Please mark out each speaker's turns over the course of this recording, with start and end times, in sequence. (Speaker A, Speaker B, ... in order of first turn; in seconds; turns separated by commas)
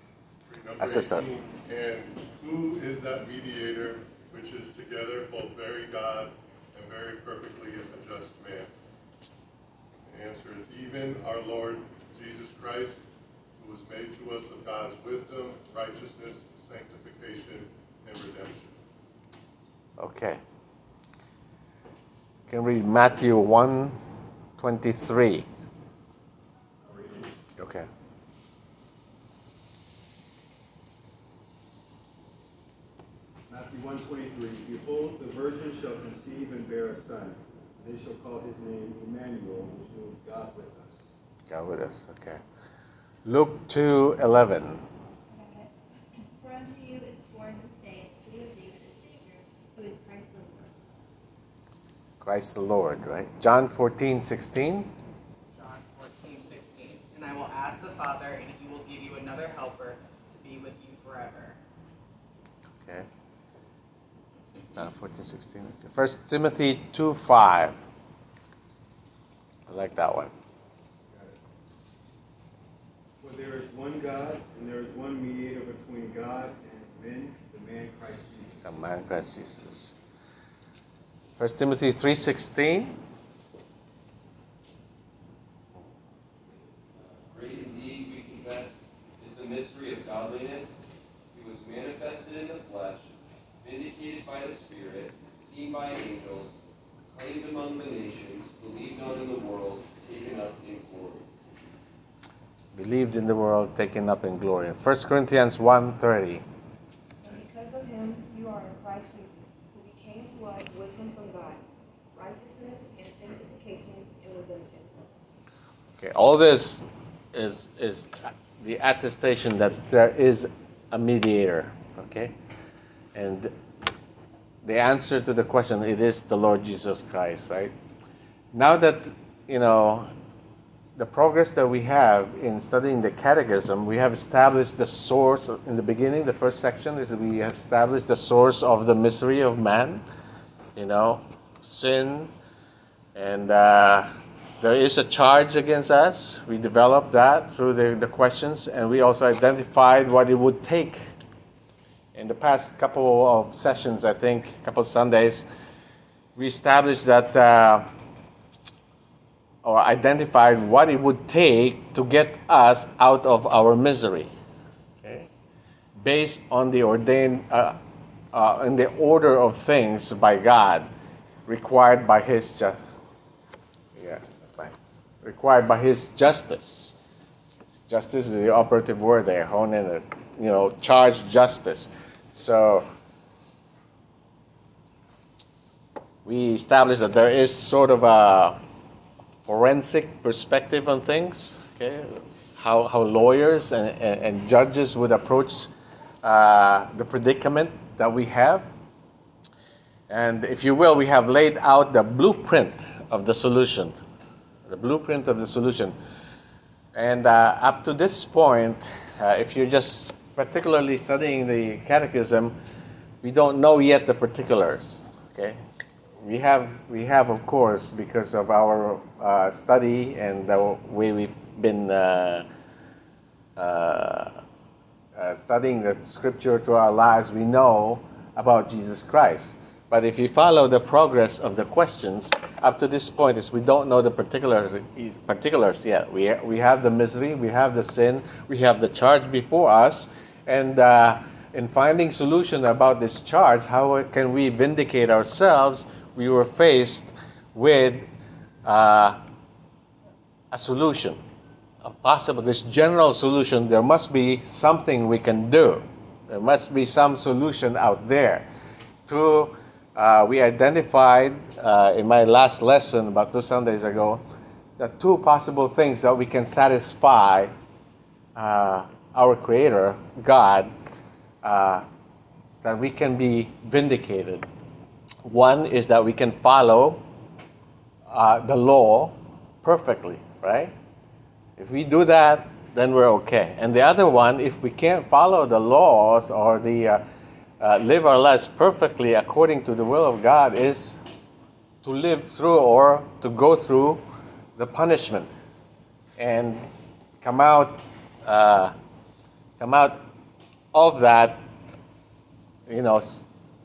Speaker A: 0.5-8.7, Speaker B: 0.8-1.2, Speaker A: 10.1-13.0, Speaker A: 13.6-18.7, Speaker B: 20.0-20.4, Speaker B: 22.5-23.9, Speaker B: 24.6-25.5, Speaker C: 26.8-27.4, Speaker B: 27.6-27.9, Speaker C: 33.5-41.1, Speaker B: 41.5-42.4, Speaker B: 43.2-44.8, Speaker D: 45.3-45.7, Speaker D: 46.3-50.7, Speaker B: 52.2-54.9, Speaker E: 55.5-61.6, Speaker B: 62.8-63.1, Speaker B: 64.8-67.8, Speaker B: 69.7-70.3, Speaker C: 71.1-71.4, Speaker C: 73.2-78.8, Speaker B: 78.6-80.0, Speaker B: 81.4-83.0, Speaker F: 86.9-90.8, Speaker F: 91.3-93.1, Speaker F: 93.6-96.5, Speaker F: 97.1-101.3, Speaker B: 102.7-106.4, Speaker G: 107.2-111.6, Speaker G: 112.1-115.0, Speaker B: 116.0-122.3, Speaker B: 123.1-123.5, Speaker B: 124.6-127.7, Speaker B: 128.5-130.1, Speaker B: 131.0-140.0, Speaker B: 140.8-142.3, Speaker B: 143.1-144.1, Speaker B: 144.6-151.0, Speaker B: 152.1-155.5, Speaker B: 156.3-157.8, Speaker B: 159.6-164.3, Speaker B: 165.0-165.3, Speaker B: 166.0-167.8, Speaker B: 168.3-170.9, Speaker B: 171.5-172.8, Speaker B: 173.9-177.0, Speaker B: 177.9-182.8, Speaker B: 186.2-188.6, Speaker B: 189.4-195.7, Speaker B: 196.2-198.7, Speaker B: 200.1-204.0, Speaker B: 204.7-205.9, Speaker B: 206.9-212.6, Speaker B: 213.2-215.6, Speaker B: 216.2-222.4, Speaker B: 223.6-224.4, Speaker B: 225.1-248.1, Speaker B: 248.6-249.2, Speaker B: 250.5-251.2, Speaker B: 251.8-258.4, Speaker B: 259.1-264.2, Speaker B: 264.8-267.5, Speaker B: 268.4-270.7, Speaker B: 271.4-271.8, Speaker B: 272.6-274.4, Speaker B: 275.2-277.0, Speaker B: 278.1-280.7, Speaker B: 281.6-287.0, Speaker B: 287.6-291.0, Speaker B: 291.8-294.0, Speaker B: 294.6-295.3, Speaker B: 296.2-296.6, Speaker B: 297.2-298.7, Speaker B: 299.6-300.0, Speaker B: 300.7-301.4, Speaker B: 302.7-303.3